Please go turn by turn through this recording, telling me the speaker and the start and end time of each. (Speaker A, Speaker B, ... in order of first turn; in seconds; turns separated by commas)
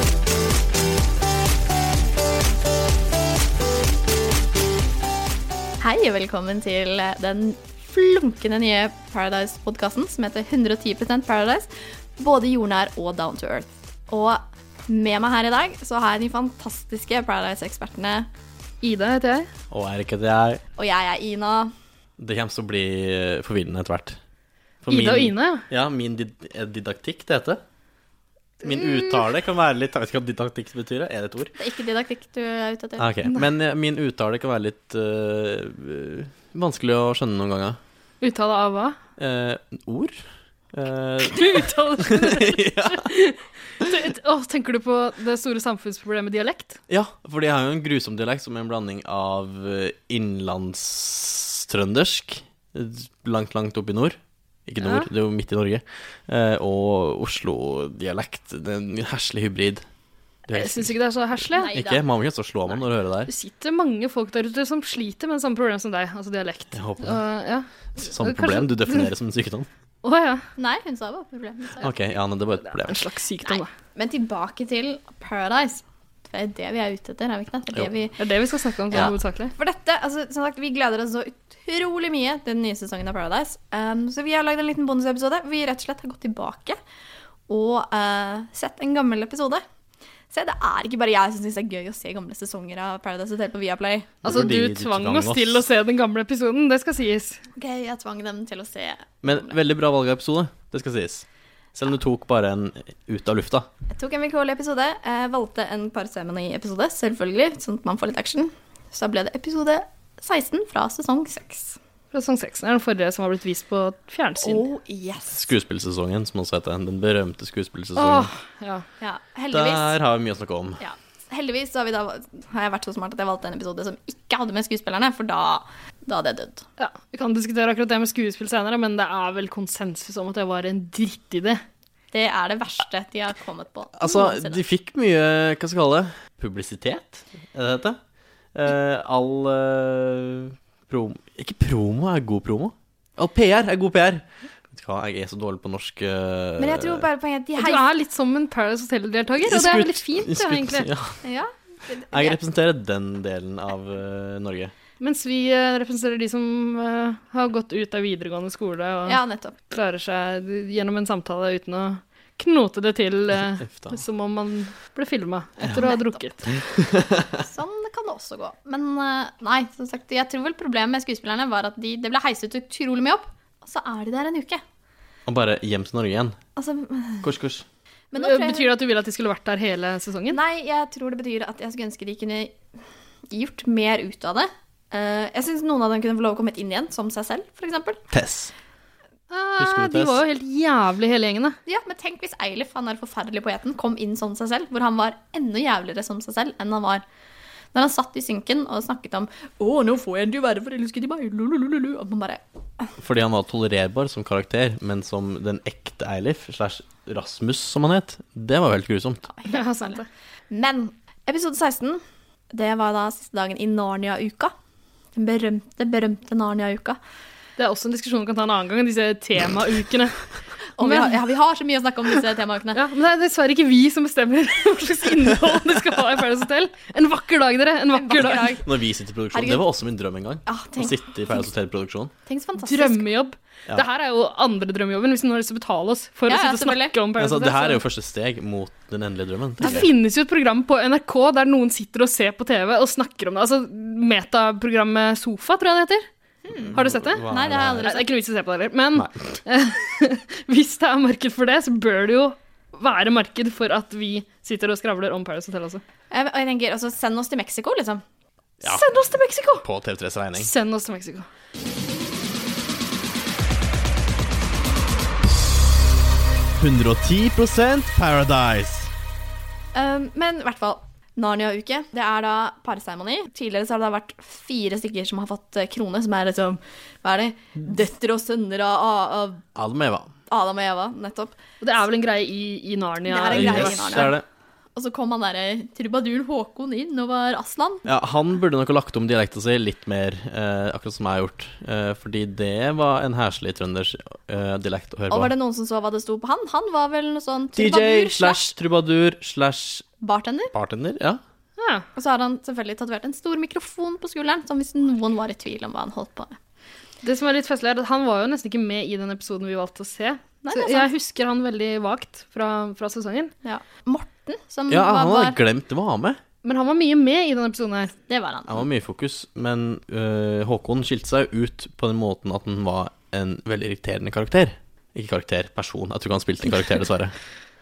Speaker A: 5.8-18.3, Speaker B: 18.8-19.5, Speaker C: 19.7-20.6, Speaker A: 20.8-21.7, Speaker C: 22.2-24.2, Speaker C: 24.8-27.6, Speaker B: 24.9-25.6, Speaker C: 28.6-31.5, Speaker A: 31.6-33.1, Speaker C: 33.0-37.8, Speaker B: 38.2-39.0, Speaker C: 39.2-43.1, Speaker B: 41.3-46.8, Speaker C: 46.9-59.8, Speaker B: 54.8-55.1, Speaker C: 60.5-61.0, Speaker B: 60.5-61.8, Speaker A: 61.5-62.0, Speaker C: 61.6-63.3, Speaker B: 63.3-69.1, Speaker C: 66.7-67.2, Speaker C: 68.0-69.7, Speaker B: 70.0-70.5, Speaker A: 70.6-71.9, Speaker C: 71.8-73.0, Speaker B: 72.7-73.7, Speaker A: 73.4-78.2, Speaker B: 78.2-79.5, Speaker A: 79.0-86.8, Speaker A: 87.5-89.6, Speaker A: 90.3-94.4, Speaker C: 94.2-95.6, Speaker B: 94.2-97.4, Speaker A: 97.5-99.5, Speaker C: 99.2-103.7, Speaker A: 103.9-111.8, Speaker B: 112.1-114.6, Speaker A: 114.4-115.5, Speaker C: 115.3-118.3, Speaker B: 118.0-118.8, Speaker A: 119.0-119.9, Speaker C: 119.5-120.8, Speaker A: 120.8-126.6, Speaker B: 126.8-131.6, Speaker A: 132.1-134.6, Speaker C: 134.0-138.0, Speaker C: 138.5-147.1, Speaker A: 146.6-147.9, Speaker B: 147.6-150.9, Speaker C: 149.4-151.2, Speaker A: 151.2-152.4, Speaker C: 152.1-154.7, Speaker B: 155.0-159.2, Speaker A: 159.1-159.6, Speaker B: 159.7-166.4, Speaker C: 163.6-163.9, Speaker A: 165.7-166.2, Speaker C: 166.5-167.4, Speaker A: 167.4-174.6, Speaker C: 175.2-176.4, Speaker A: 176.6-177.3, Speaker C: 177.2-177.6, Speaker A: 178.1-178.7, Speaker B: 178.2-180.4, Speaker A: 180.3-182.6, Speaker A: 183.3-188.0, Speaker C: 188.1-188.5, Speaker B: 189.3-191.6, Speaker C: 189.6-190.2, Speaker A: 191.7-197.0, Speaker A: 197.7-202.9, Speaker C: 203.0-209.3, Speaker A: 209.3-212.0, Speaker B: 209.5-210.1, Speaker A: 212.5-214.5, Speaker A: 215.1-217.0, Speaker B: 217.6-220.2, Speaker A: 220.8-222.8, Speaker B: 220.8-221.2, Speaker B: 222.7-228.6, Speaker A: 227.9-228.7, Speaker C: 228.6-232.1, Speaker A: 229.3-229.7, Speaker A: 230.4-231.4, Speaker A: 232.2-233.1, Speaker B: 232.6-237.8, Speaker A: 236.3-237.0, Speaker C: 237.2-239.9, Speaker B: 239.6-246.0, Speaker A: 246.4-248.1, Speaker C: 246.5-247.9, Speaker B: 246.7-247.2, Speaker B: 247.8-255.8, Speaker C: 248.9-249.4, Speaker A: 256.1-258.0, Speaker B: 258.6-259.6, Speaker C: 259.6-260.5, Speaker B: 260.4-261.3, Speaker C: 266.6-268.9, Speaker A: 269.7-279.4, Speaker C: 279.5-280.1, Speaker A: 280.3-281.4, Speaker B: 281.6-284.1, Speaker A: 283.0-284.1, Speaker C: 283.3-284.2, Speaker A: 284.7-287.8, Speaker C: 287.8-295.3, Speaker A: 295.1-298.5, Speaker C: 297.5-299.9, Speaker A: 300.0-300.5, Speaker C: 300.5-301.2, Speaker B: 301.6-301.9, Speaker A: 301.9-306.4, Speaker B: 307.0-313.3, Speaker A: 310.4-310.9, Speaker A: 313.4-315.4, Speaker C: 314.7-316.2, Speaker B: 316.4-317.9, Speaker A: 318.1-318.6, Speaker C: 318.5-327.1